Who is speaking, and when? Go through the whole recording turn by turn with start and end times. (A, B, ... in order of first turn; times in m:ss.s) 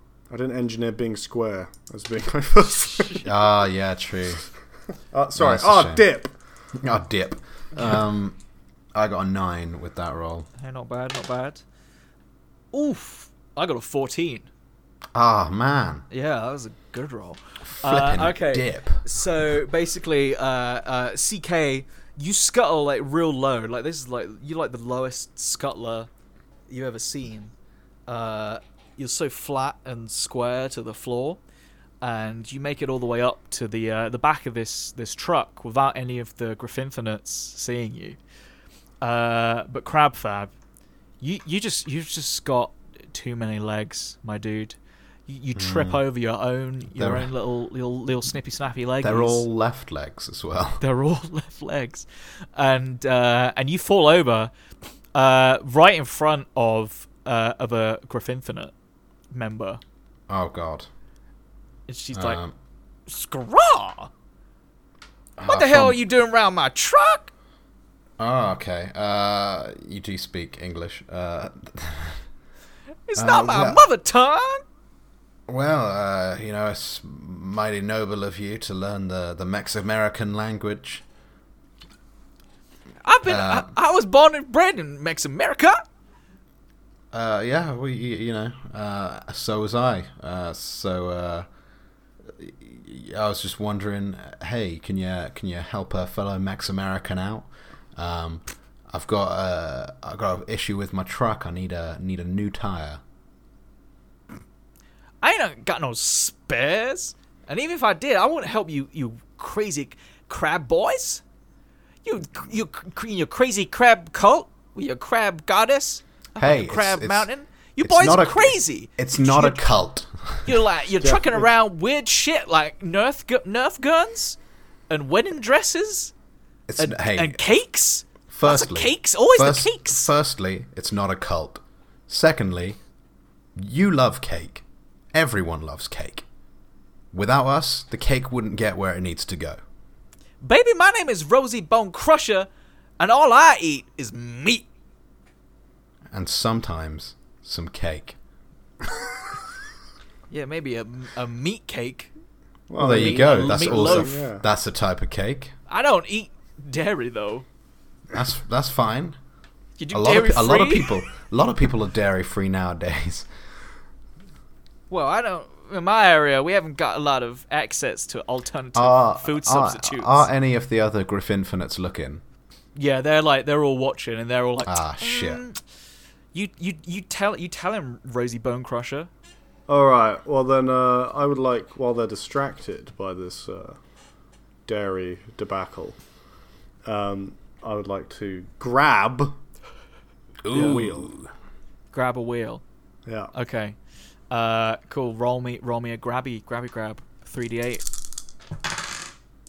0:00.3-0:03.3 A
0:03.2-0:04.4 B
0:05.1-0:06.3 A
0:05.3-0:06.0 B
0:06.7-0:08.4 B
0:08.9-0:10.5 B
0:10.6-0:11.6 C
0:12.7-0:14.5 C
0:15.1-0:16.0 B
0:16.1-0:26.1 C
0:17.7-0:19.0 B
0:26.7-0:27.5 C
0:28.1-0:31.4 C
0:32.0-0:38.2 C
0:39.0-0:40.5 C
0:41.2-0:49.4 C
0:45.5-0:46.0 B
0:46.9-0:47.3 B
0:49.0-0:50.8 B
0:50.8-0:54.5 C
0:55.1-0:58.7 C
0:59.3-0:59.8 C
1:00.3-1:00.9 B
1:01.9-1:02.4 C
1:02.1-1:02.5 B
1:03.1-1:04.1 C
1:05.4-1:06.0 B
1:05.4-1:07.3 C
1:08.2-1:12.2 B
1:13.1-1:14.6 C
1:13.2-1:13.8 B
1:15.5-1:21.0 B
1:23.0-1:25.8 C
1:23.2-1:23.7 B
1:27.1-1:31.5 B
1:32.3-1:43.0 B
1:45.2-1:51.2 C
1:52.0-1:59.6 C
1:56.4-1:57.3 B
1:57.8-2:00.5 B
2:00.4-2:04.4 C
2:01.0-2:01.5 A
2:04.9-2:06.1 C
2:06.7-2:07.4 B
2:06.8-2:10.1 C
2:08.3-2:12.8 B
2:13.6-2:16.2 B
2:17.1-2:19.6 B
2:20.4-2:24.6 C
2:26.1-2:28.2 B
2:30.3-2:32.1 C
2:32.7-2:34.4 A
2:32.8-2:35.5 B
2:32.9-2:34.1 C
2:35.7-2:37.4 C
2:38.1-2:39.2 B
2:39.8-2:40.9 C
2:39.9-2:43.3 B
2:44.9-2:50.3 C
2:48.7-2:52.2 B
2:52.7-2:55.6 C
2:54.6-2:55.4 B
2:56.3-2:59.1 C
2:59.7-3:03.8 A
3:04.7-3:06.0 A
3:06.8-3:09.4 A
3:10.4-3:11.3 B
3:10.5-3:10.8 C
3:10.5-3:11.1 A
3:11.9-3:12.6 C
3:13.0-3:13.3 A
3:13.3-3:13.8 C
3:14.3-3:17.8 C